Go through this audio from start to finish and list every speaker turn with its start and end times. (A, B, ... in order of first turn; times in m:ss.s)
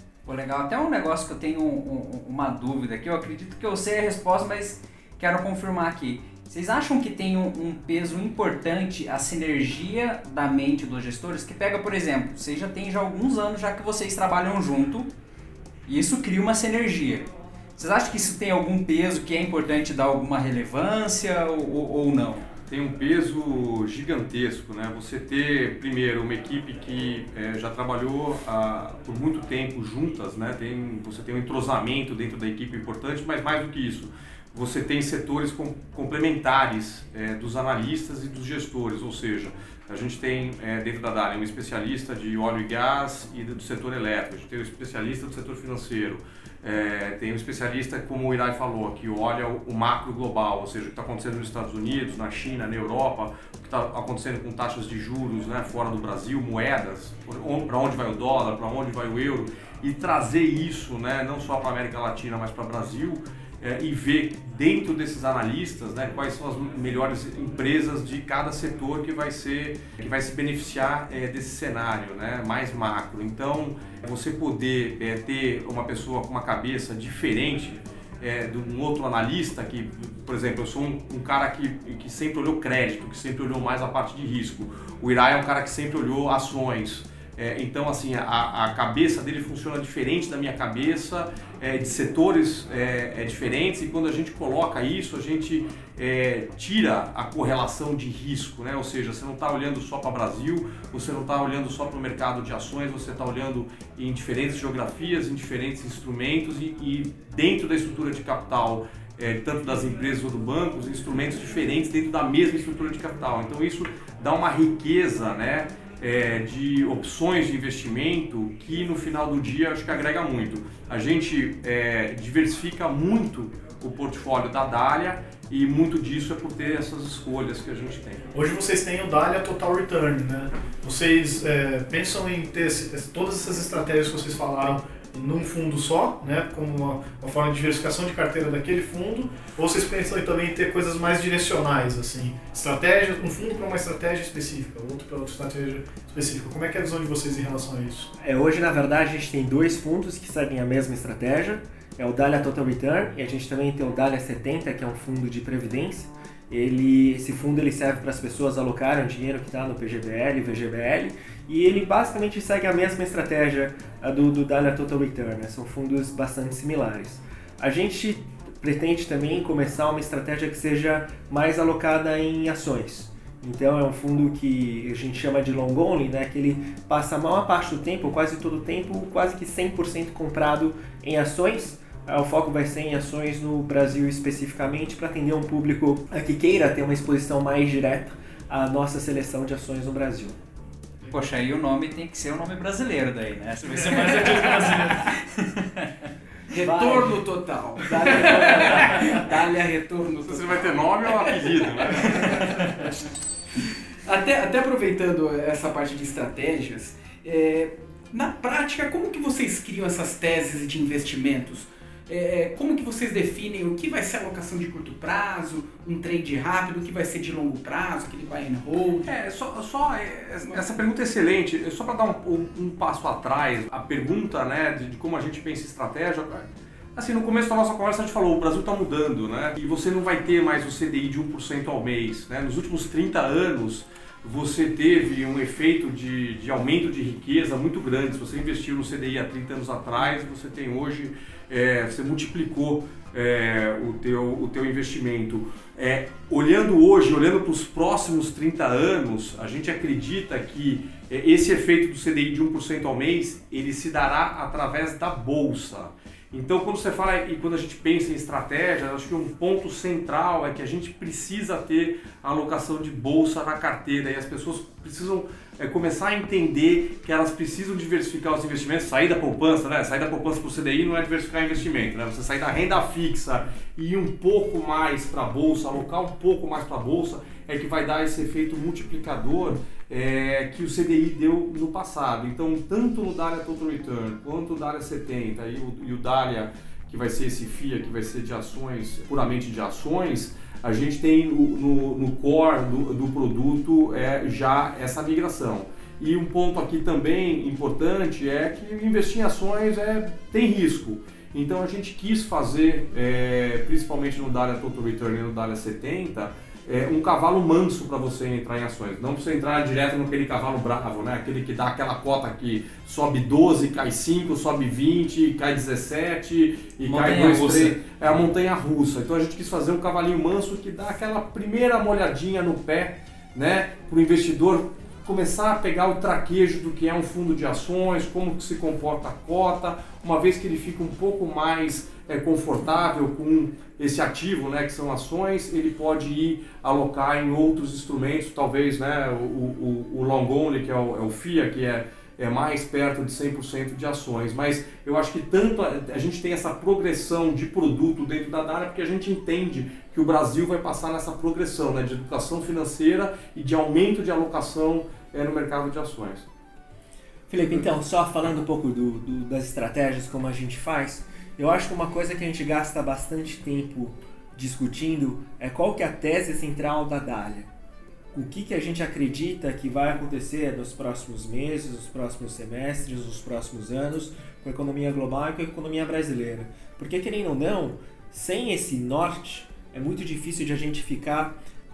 0:00.3-0:15.1 A
0:15.9-0:22.4 A
0:22.7-2:08.2 B
2:08.3-2:28.1 C
2:28.2-3:10.4 D
3:11.1-3:16.1 A
3:13.8-3:15.0 C
3:16.5-3:22.9 E
3:16.6-3:17.2 D
3:17.8-3:19.2 D
3:20.3-3:22.6 B
3:22.4-3:22.6 A
3:24.1-3:39.1 E
3:39.0-5:56.3 B
5:16.8-5:17.8 A
5:57.3-6:07.5 D
6:08.1-6:21.4 D